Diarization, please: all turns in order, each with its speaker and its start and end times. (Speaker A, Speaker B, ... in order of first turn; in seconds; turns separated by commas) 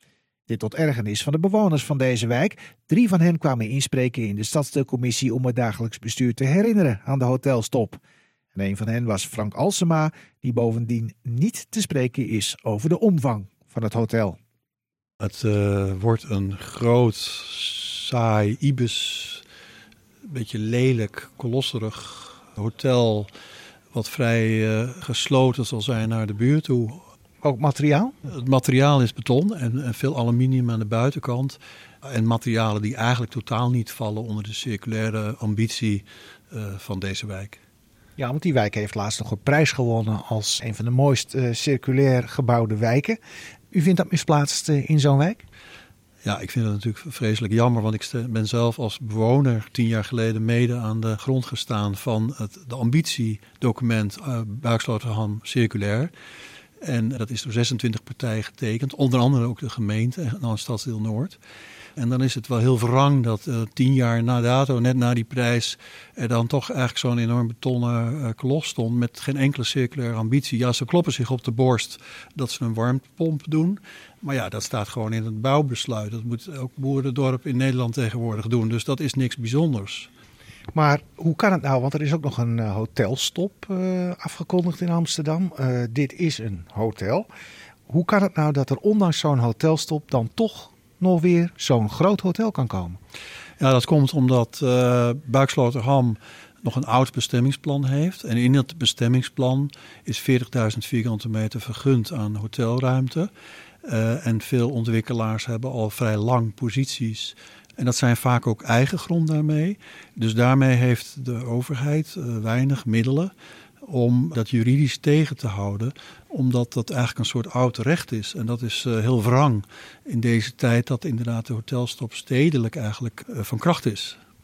Speaker A: 0.5-8.0, Speaker A: 8.5-14.4, Speaker B: 15.2-19.4, Speaker B: 20.3-23.3, Speaker B: 23.9-27.0, Speaker A: 27.4-28.1, Speaker B: 28.2-37.6, Speaker A: 38.2-43.2, Speaker A: 43.7-45.5, Speaker B: 46.2-56.1, Speaker B: 56.8-61.4, Speaker B: 62.0-80.1, Speaker A: 80.7-87.3, Speaker A: 87.9-93.0, Speaker B: 93.6-103.3, Speaker B: 103.8-124.2